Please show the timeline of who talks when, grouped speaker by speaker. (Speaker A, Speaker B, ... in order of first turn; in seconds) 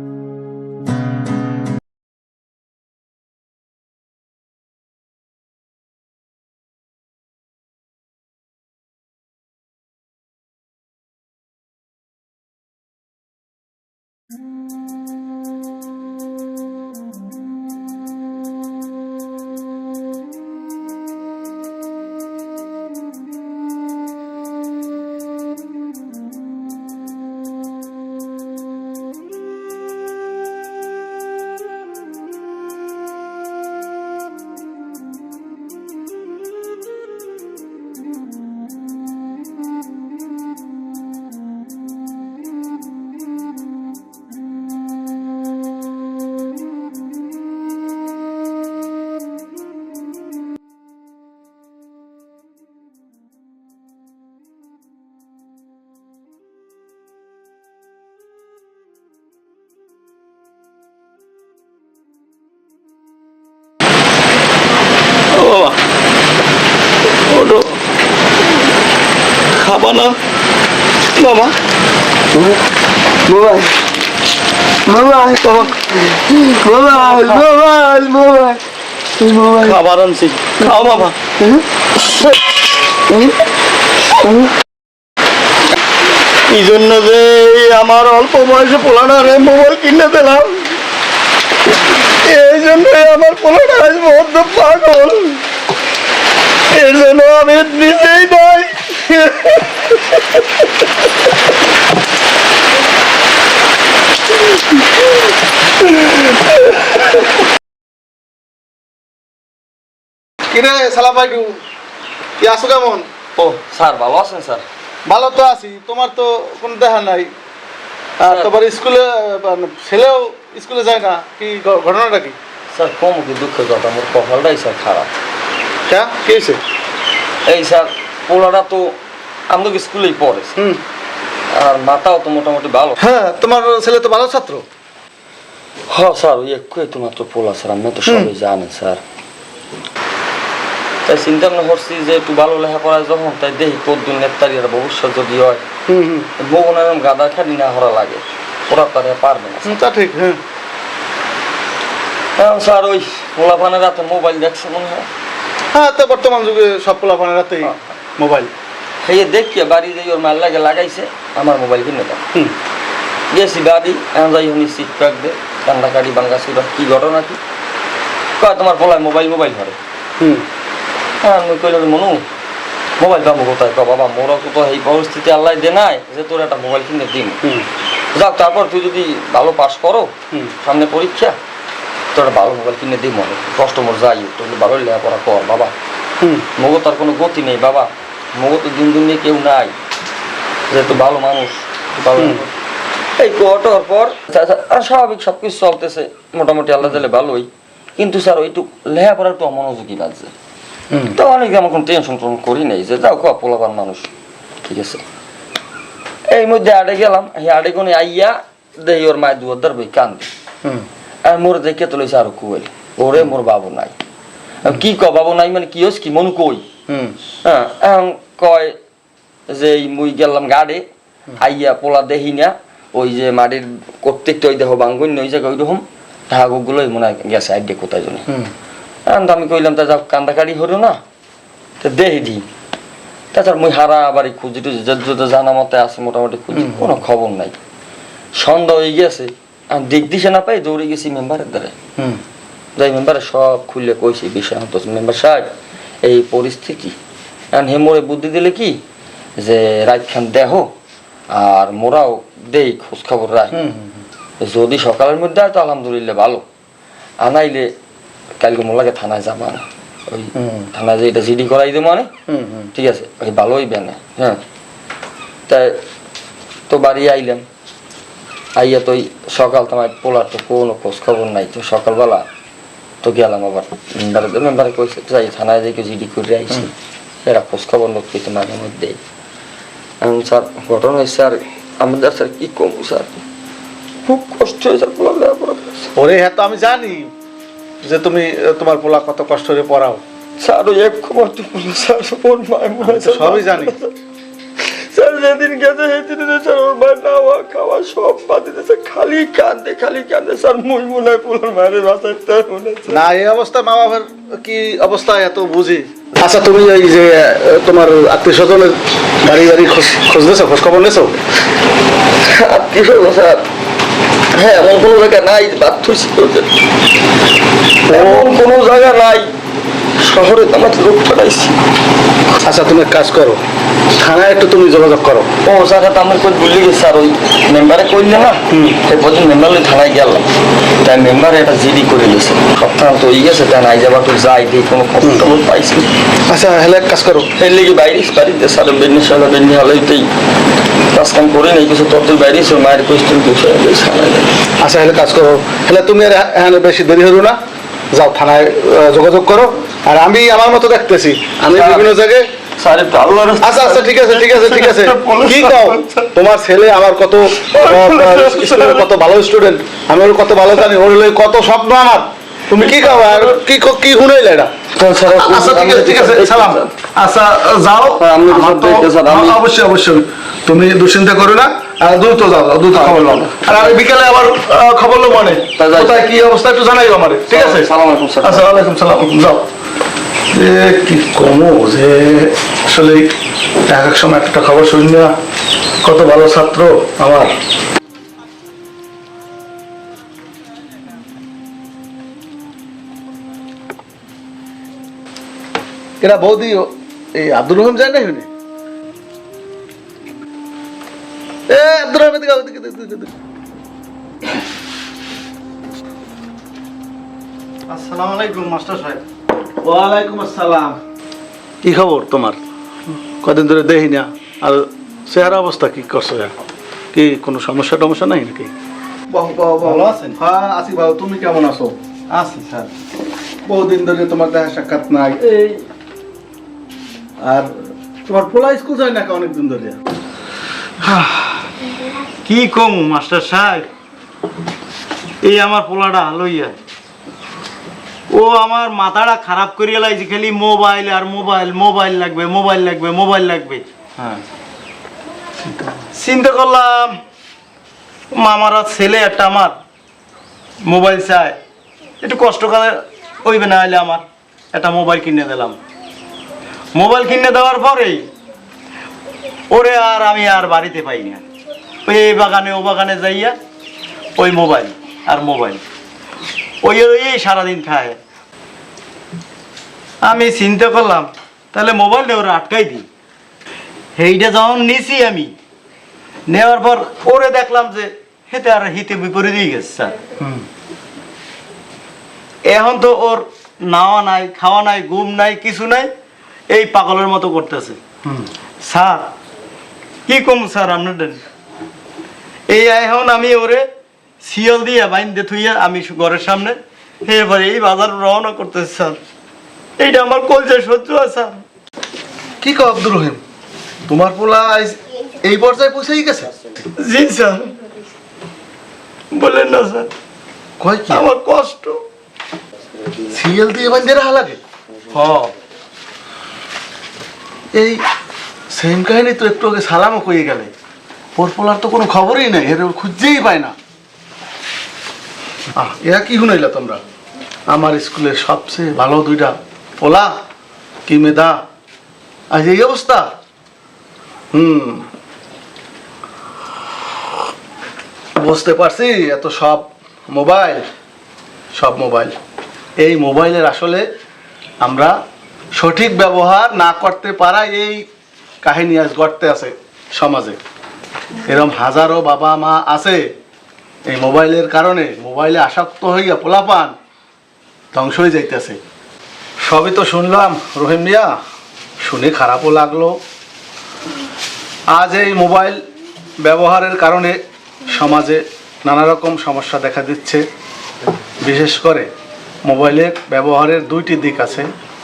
Speaker A: 67.4-67.7, 69.6-70.2, 75.4-75.7, 77.0-77.4, 79.6-81.1, 86.5-90.7, 92.2-95.4, 96.7-99.5, 407.7-409.0, 419.6-420.0, 422.1-422.7, 430.8-431.4, 432.2-433.7, 435.2-436.6, 438.1-443.7, 445.9-447.0, 448.1-449.6, 450.6-451.4, 452.0-455.6, 456.7-458.1, 459.5-461.2, 461.8-463.4, 464.2-465.6, 466.6-468.0, 470.0-472.9, 473.9-475.3, 476.3-480.0, 482.4-485.9, 486.5-487.8, 488.6-489.1, 490.1-491.2, 492.5-493.7, 494.2-499.0, 499.8-501.4, 506.8-507.5, 509.1-509.9, 510.9-511.8, 514.9-515.3
Speaker B: 72.3-72.6, 73.2-73.7, 74.8-78.6, 79.2-79.8, 113.3-114.6, 118.2-118.5, 122.7-125.1, 127.5-129.0, 129.5-130.5, 131.5-133.0, 135.9-139.0, 141.0-145.6, 146.4-149.8, 152.4-155.1, 159.0-162.2, 163.3-167.4, 168.4-169.8, 171.2-172.2, 173.0-177.4, 178.1-181.3, 182.1-185.7, 186.6-189.7, 190.7-192.5, 193.2-200.3, 201.1-204.1, 204.6-205.0, 206.3-210.3, 211.2-213.9, 214.6-216.6, 217.4-218.8, 219.5-220.8, 221.4-228.3, 229.1-231.0, 231.8-232.4, 233.3-237.6, 238.3-241.7, 242.8-245.5, 246.0-246.9, 247.5-248.8, 249.4-250.7, 251.3-253.6, 254.4-256.4, 257.2-257.7, 258.4-262.1, 262.7-264.4, 265.5-265.8, 266.7-267.4, 268.6-272.3, 273.0-276.7, 277.2-279.0, 280.0-283.2, 284.0-285.9, 290.4-293.9, 294.6-303.1, 312.2-313.4, 314.3-316.5, 317.9-319.3, 320.0-321.6, 325.4-330.2, 330.8-335.9, 337.3-340.1, 340.9-344.4, 351.5-352.0, 352.6-356.1, 357.4-358.9, 362.6-363.4, 364.7-366.7, 368.0-369.4, 372.7-373.8, 375.6-376.0, 377.3-378.7
Speaker C: 110.5-111.6, 112.4-113.0, 115.0-117.3, 118.2-122.3, 125.9-126.6, 130.6-130.8, 133.0-134.6, 145.9-146.3, 149.6-150.4, 155.7-158.5, 170.2-170.4, 186.2-186.5, 192.2-192.4, 200.9-201.2, 216.9-217.2, 236.5-236.9, 253.5-254.0, 260.4-260.7, 262.3-262.7, 285.9-287.1, 287.8-290.0, 292.8-293.7, 302.9-311.2, 317.9-318.3, 322.4-323.4, 324.0-325.3, 328.5-328.8, 336.3-337.3, 344.6-347.4, 347.9-352.3, 353.4-364.5, 365.1-377.7, 378.2-379.5, 380.3-383.1, 383.7-385.1, 385.8-387.3, 396.0-398.3, 401.5-403.1, 409.6-410.8, 411.6-412.4, 413.2-416.3, 416.9-418.5, 419.1-421.8, 423.4-425.4, 427.2-427.5, 428.0-429.8, 480.2-480.4, 502.4-503.2, 503.9-506.3, 510.6-511.1, 513.0-514.4, 517.5-517.8, 518.5-520.5, 521.1-523.5, 525.5-526.8, 527.5-530.1, 530.9-531.4, 532.3-533.1, 534.3-534.9, 538.1-540.6, 541.5-542.1, 542.8-543.9, 544.6-544.9, 545.5-547.9, 548.4-550.4, 551.2-553.1, 553.9-556.7, 557.7-558.6, 559.4-561.1, 561.8-563.0, 564.7-565.6, 566.2-570.2, 571.2-571.9, 572.4-574.5